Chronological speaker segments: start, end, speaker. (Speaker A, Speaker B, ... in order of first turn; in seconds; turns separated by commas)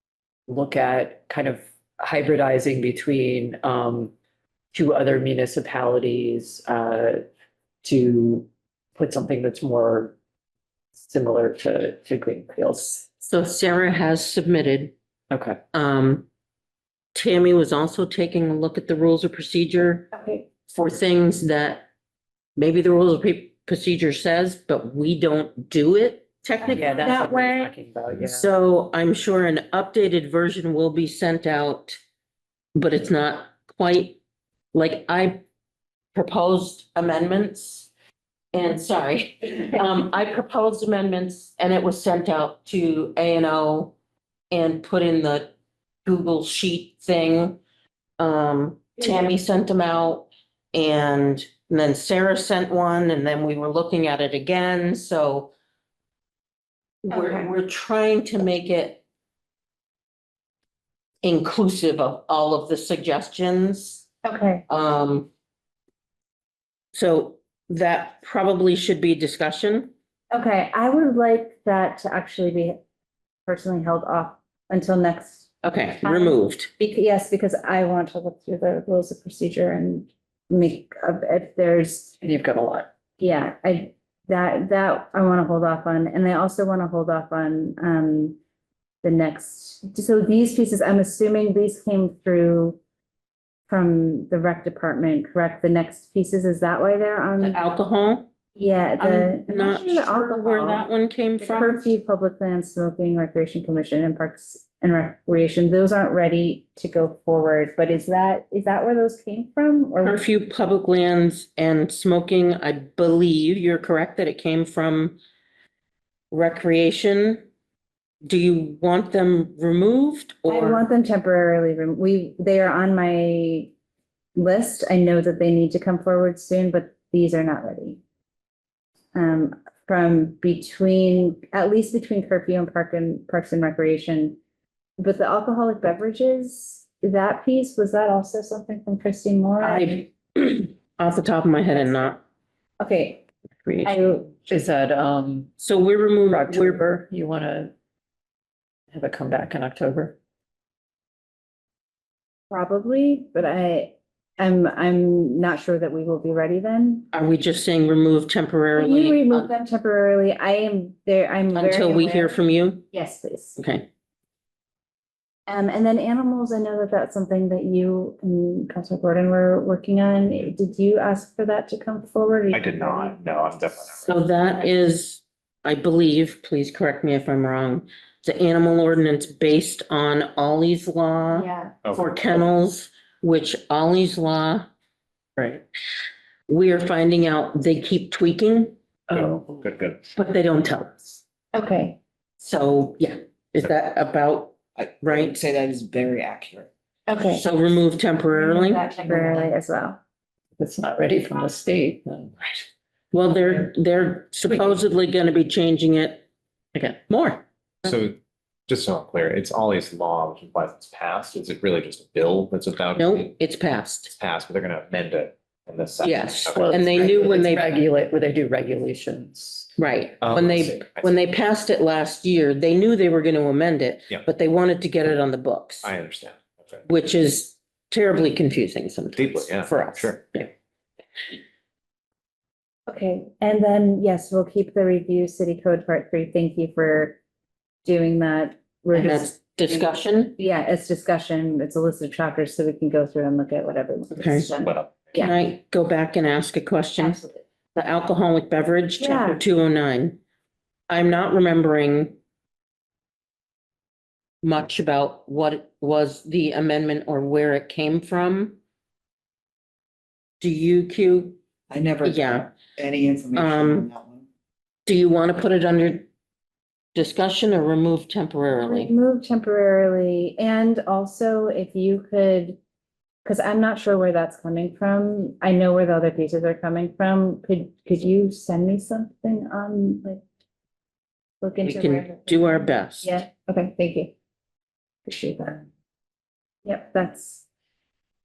Speaker A: 0.5-4.1, Speaker A: 4.7-7.2, Speaker A: 7.8-10.2, Speaker A: 11.0-13.1, Speaker B: 13.2-14.9, Speaker A: 15.3-15.6, Speaker B: 15.7-16.2, Speaker B: 17.1-20.1, Speaker C: 20.1-20.5, Speaker B: 20.7-21.9, Speaker B: 22.6-27.3, Speaker A: 26.6-28.5, Speaker C: 26.8-27.7, Speaker B: 28.2-32.0, Speaker B: 32.7-34.2, Speaker B: 34.7-35.4, Speaker B: 36.1-37.9, Speaker B: 38.5-43.9, Speaker B: 44.5-45.5, Speaker B: 46.0-47.6, Speaker B: 48.2-55.5, Speaker B: 57.0-59.0, Speaker C: 57.1-57.5, Speaker B: 61.2-64.0, Speaker C: 64.2-64.7, Speaker B: 64.7-65.3, Speaker B: 66.9-69.9, Speaker C: 70.3-72.8, Speaker C: 73.5-75.5, Speaker B: 75.6-76.7, Speaker C: 76.0-82.2, Speaker A: 82.2-82.9, Speaker C: 83.2-88.4, Speaker C: 89.0-92.8, Speaker C: 93.7-97.6, Speaker B: 97.4-98.3, Speaker C: 98.5-100.8, Speaker B: 99.0-101.8, Speaker C: 101.4-110.2, Speaker B: 110.0-115.2, Speaker B: 116.3-117.4, Speaker B: 118.2-120.8, Speaker C: 120.5-123.7, Speaker C: 124.3-128.0, Speaker C: 129.1-134.4, Speaker C: 135.0-140.0, Speaker B: 139.6-142.2, Speaker C: 142.8-143.2, Speaker B: 143.7-143.9, Speaker C: 143.8-144.3, Speaker A: 144.3-145.5, Speaker B: 145.6-146.8, Speaker A: 146.3-147.7, Speaker A: 148.9-150.2, Speaker C: 152.5-157.1, Speaker B: 157.1-159.5, Speaker C: 158.8-162.4, Speaker B: 161.5-162.9, Speaker C: 162.9-163.6, Speaker B: 163.6-163.9, Speaker C: 165.5-173.2, Speaker D: 172.5-174.1, Speaker B: 174.0-184.7, Speaker C: 181.3-181.7, Speaker B: 186.5-188.7, Speaker A: 189.1-189.6, Speaker D: 189.1-190.0, Speaker B: 190.1-191.2, Speaker C: 191.5-192.0, Speaker B: 192.4-195.4, Speaker D: 194.8-196.7, Speaker C: 197.1-197.4, Speaker B: 197.3-198.9, Speaker C: 198.5-200.0, Speaker A: 200.6-202.6, Speaker B: 203.1-206.2, Speaker B: 207.1-207.4, Speaker D: 207.8-208.2, Speaker D: 208.7-213.3, Speaker B: 212.9-214.1, Speaker D: 214.1-217.3, Speaker B: 216.0-217.7, Speaker A: 216.5-219.7, Speaker B: 219.8-225.9, Speaker D: 220.2-221.2, Speaker D: 225.8-226.8, Speaker B: 226.9-230.5, Speaker D: 229.1-230.2, Speaker C: 232.9-237.2, Speaker C: 237.8-245.3, Speaker B: 238.9-240.3, Speaker B: 244.1-244.5, Speaker D: 244.6-245.1, Speaker B: 245.2-247.2, Speaker C: 247.0-247.4, Speaker B: 247.7-250.2, Speaker C: 249.0-249.4, Speaker B: 250.9-252.2, Speaker B: 254.4-258.6, Speaker B: 260.4-261.4, Speaker E: 261.7-262.2, Speaker B: 262.0-262.5, Speaker E: 262.8-264.3, Speaker D: 263.3-263.7, Speaker B: 263.3-263.9, Speaker B: 264.9-266.1, Speaker B: 266.9-268.9, Speaker C: 268.6-272.6, Speaker C: 273.2-280.2, Speaker C: 281.4-284.1, Speaker B: 281.6-283.2, Speaker C: 285.1-285.6, Speaker C: 286.6-287.4